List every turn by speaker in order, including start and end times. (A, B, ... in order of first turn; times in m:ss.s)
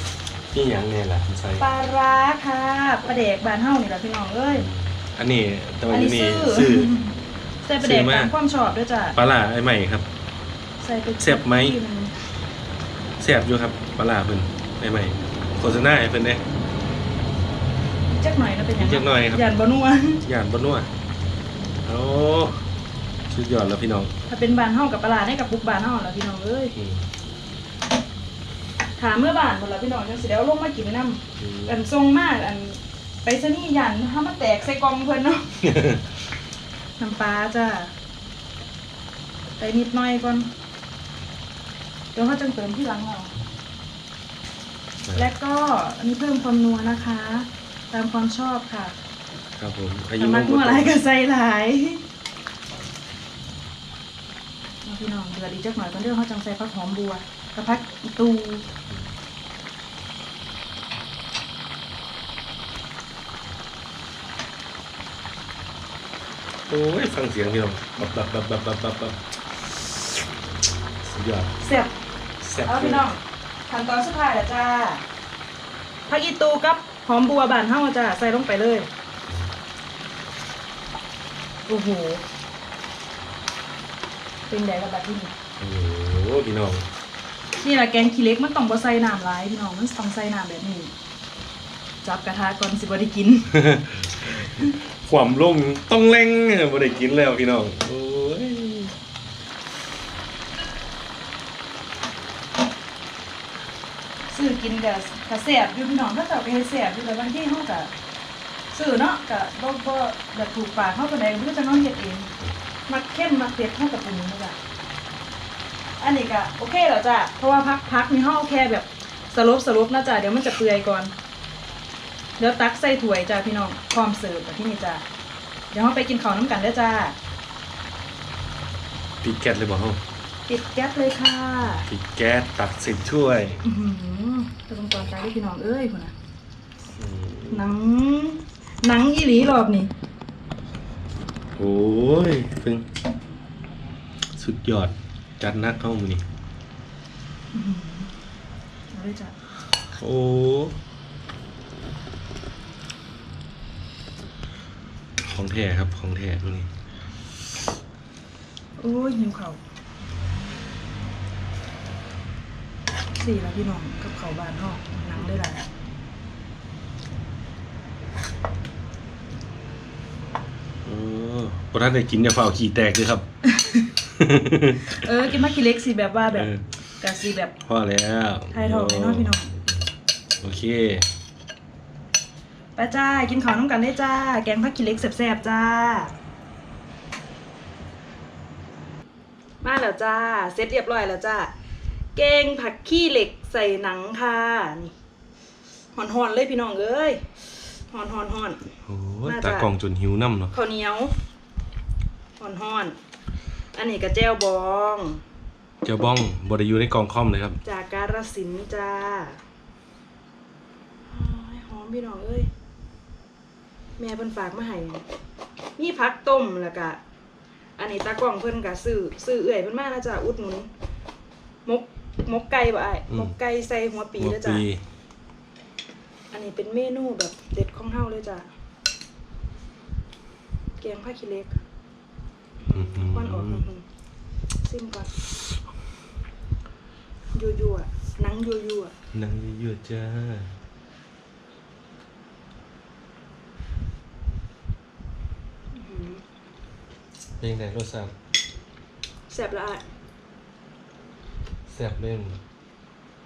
0:00.5-0:01.6 A
0:01.6-0:04.7 B
0:04.5-0:06.9 A
0:05.9-0:09.2 B
0:07.8-0:08.3 A
0:09.1-0:10.1 A
0:10.8-0:12.1 B
0:11.2-0:11.8 A
0:13.2-0:16.4 A
0:18.1-0:20.2 B
0:18.8-0:19.4 A
0:20.2-0:20.9 A
0:21.8-0:22.7 A
0:23.3-0:24.1 A
0:24.3-0:26.8 B
0:26.8-0:27.1 A
0:29.0-0:35.6 B
0:31.4-0:31.8 A
0:35.6-0:36.1 A
0:37.0-0:37.9 B
0:39.6-0:40.5 B
0:42.1-0:43.3 B
0:45.1-0:48.9 B
0:49.6-0:51.0 A
0:50.2-0:52.0 B
0:54.8-0:58.6 B
1:06.7-1:10.2 A
1:11.0-1:11.5 A
1:11.6-1:11.9 B
1:12.4-1:13.0 A
1:12.6-1:15.0 B
1:16.1-1:18.9 B
1:21.7-1:22.2 B
1:24.5-1:25.4 B
1:25.6-1:26.9 A
1:27.6-1:30.9 B
1:32.0-1:33.6 B
1:33.5-1:39.0 A
1:34.2-1:34.8 B
1:44.3-1:47.9 B
1:48.7-1:52.3 B
1:52.9-1:54.6 B
1:56.0-2:01.1 B
2:02.4-2:05.0 B
2:05.7-2:07.2 B
2:09.2-2:10.0 A
2:10.5-2:11.9 B
2:11.9-2:13.6 A
2:13.6-2:16.1 B
2:17.0-2:17.6 A
2:17.5-2:19.9 B
2:21.6-2:22.8 A
2:24.4-2:26.2 A
2:27.5-2:28.1 B
2:28.9-2:29.4 B
2:30.0-2:30.8 A
2:35.2-2:36.7 A
2:38.8-2:39.6 B
2:43.1-2:45.6 B
2:45.1-2:45.4 A
2:50.8-2:53.3 A
2:53.4-2:53.9 B
2:54.1-2:55.1 A
2:54.9-2:56.5 B
2:56.3-2:56.7 A
2:57.0-2:57.5 B
2:57.6-2:59.8 A
2:58.5-2:59.5 B
3:00.4-3:01.0 A
3:02.8-3:06.1 B
3:09.6-3:11.5 B
3:12.1-3:14.9 B
3:16.0-3:18.7 B
3:18.9-3:20.5 A
3:19.2-3:19.7 B
3:20.5-3:21.2 B
3:22.4-3:23.0 B
3:23.7-3:25.2 B
3:25.8-3:27.6 A
3:27.6-3:29.4 B
3:31.1-3:32.5 B
3:34.0-3:35.0 B
3:35.8-3:37.0 B
3:37.8-3:40.7 B
3:41.6-3:44.6 B
3:44.2-3:44.8 A
3:46.3-3:48.5 B
3:50.8-3:51.6 B
3:52.6-3:53.8 B
3:52.7-3:53.6 A
3:54.6-3:55.1 B
3:57.3-3:58.9 B
3:59.1-4:00.5 A
4:05.7-4:06.2 B
4:07.4-4:08.1 A
4:09.3-4:09.8 B
4:11.7-4:12.4 A